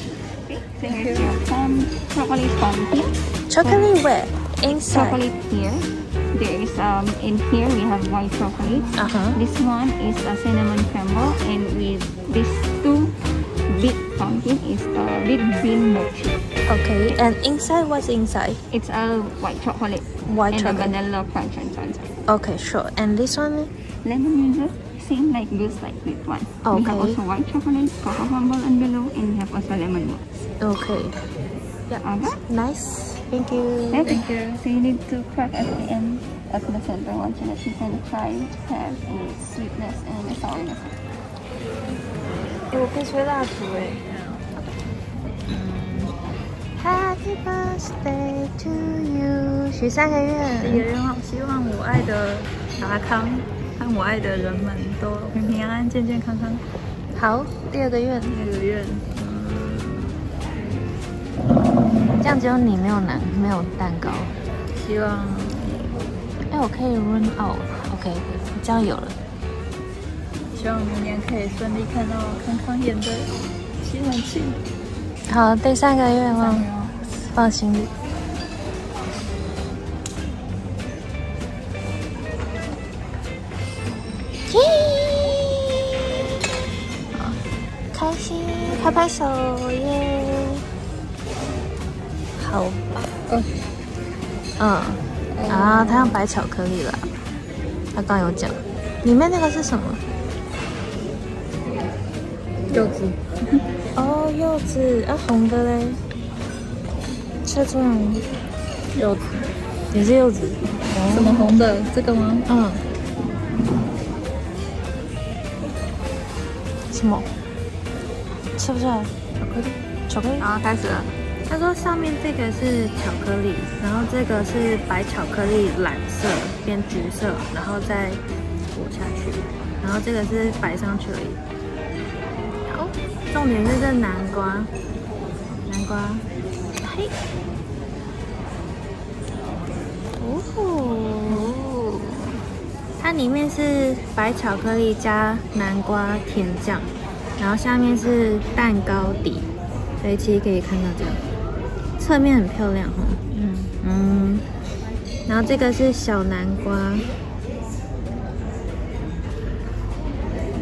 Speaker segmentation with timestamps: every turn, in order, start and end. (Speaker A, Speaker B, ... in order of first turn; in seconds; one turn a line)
Speaker A: 0.5-3.1
Speaker B: 0.8-1.3
Speaker C: 3.5-5.2
Speaker A: 4.8-16.4
Speaker C: 8.9-9.4
Speaker C: 16.7-18.6
Speaker A: 18.7-22.1
Speaker C: 20.2-20.9
Speaker C: 22.3-23.7
Speaker A: 24.0-30.2
Speaker C: 26.6-27.2
Speaker C: 30.6-31.2
Speaker C: 31.9-34.2
Speaker A: 32.0-32.4
Speaker A: 33.9-41.0
Speaker B: 34.0-34.6
Speaker C: 42.7-44.0
Speaker B: 43.9-44.5
Speaker C: 45.5-46.1
Speaker C: 46.8-50.9
Speaker B: 50.6-56.6
Speaker C: 57.1-58.3
Speaker B: 58.2-59.1
Speaker C: 59.1-60.1
Speaker C: 62.2-64.3
Speaker B: 64.7-65.7
Speaker C: 66.5-69.2
Speaker B: 70.5-74.6
Speaker C: 75.3-76.7
Speaker B: 76.4-77.0
Speaker C: 77.2-77.9
Speaker C: 84.5-85.6
Speaker C: 87.9-90.6
Speaker C: 92.4-93.0
Speaker C: 94.6-97.1
Speaker B: 95.3-96.2
Speaker C: 97.9-100.0
Speaker B: 102.7-103.3
Speaker C: 104.0-106.0
Speaker C: 107.4-108.2
Speaker B: 108.9-109.5
Speaker C: 109.9-111.5
Speaker B: 111.1-112.5
Speaker C: 112.5-112.8
Speaker C: 116.9-117.3
Speaker C: 118.5-120.5
Speaker B: 120.4-121.1
Speaker C: 121.5-128.2
Speaker C: 128.7-131.4
Speaker C: 132.7-134.7
Speaker C: 135.7-136.2
Speaker C: 136.8-137.1
Speaker C: 140.2-141.5
Speaker A: 141.3-142.4
Speaker C: 143.0-149.5
Speaker C: 150.0-151.2
Speaker C: 152.0-153.2
Speaker B: 153.3-153.7
Speaker C: 153.8-154.4
Speaker C: 155.2-157.1